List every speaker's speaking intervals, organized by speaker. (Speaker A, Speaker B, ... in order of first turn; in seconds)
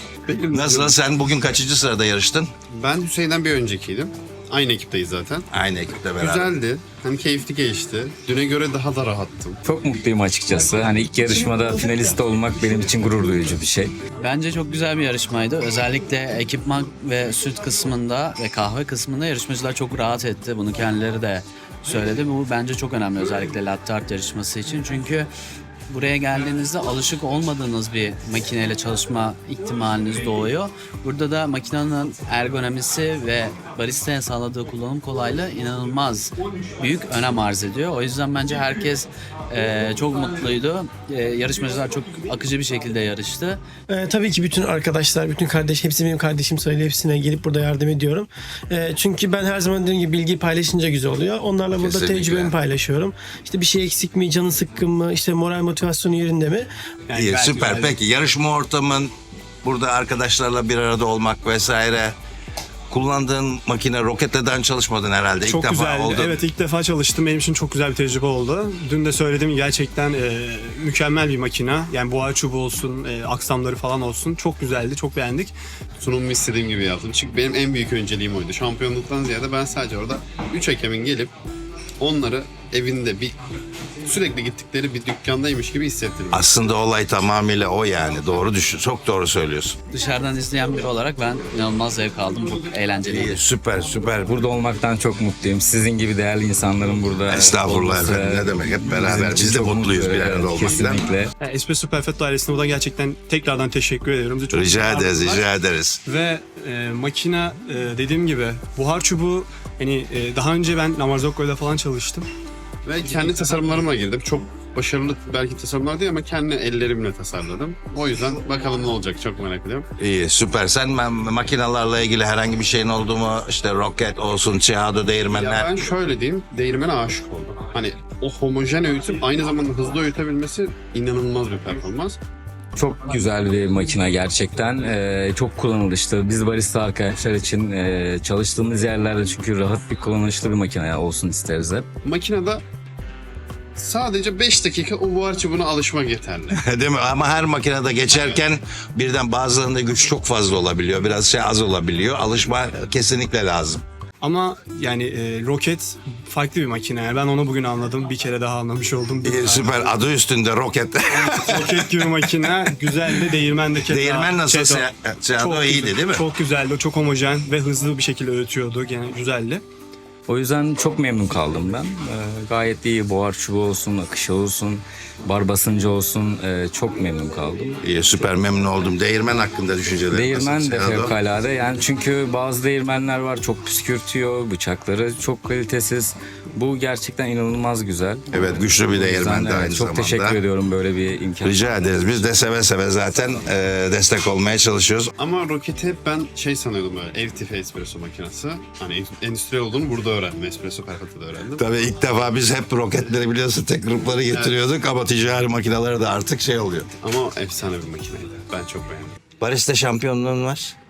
Speaker A: 0.3-0.8, 2.7-5.5, 6.2-9.6, 76.0-81.3, 82.0-83.3, 84.0-86.5, 112.8-119.9, 125.3-132.2, 142.0-142.6, 143.8-146.6, 148.1-148.4, 195.2-201.7, 204.3-204.6, 207.0-209.1
Speaker B: 0.4-2.5, 5.5-6.5, 51.7-52.5, 57.1-59.1, 59.6-62.1, 62.9-66.4, 86.3-89.8, 93.1-94.3, 97.2-101.1, 104.5-106.0, 120.0-125.8, 146.5-153.8, 159.2-163.2, 163.8-166.2, 177.8-181.1, 188.3-190.4, 191.4-195.1, 201.6-206.9, 209.4-210.7
Speaker C: 9.7-13.9, 94.2-101.3, 132.8-141.9, 170.3-177.8, 180.1-192.3
Speaker D: 14.2-25.3, 25.9-43.6, 89.9-93.4
Speaker E: 43.9-56.7
Speaker F: 57.1-58.0, 65.4-75.5, 101.4-105.4, 106.1-112.3, 154.2-159.5, 161.3-169.6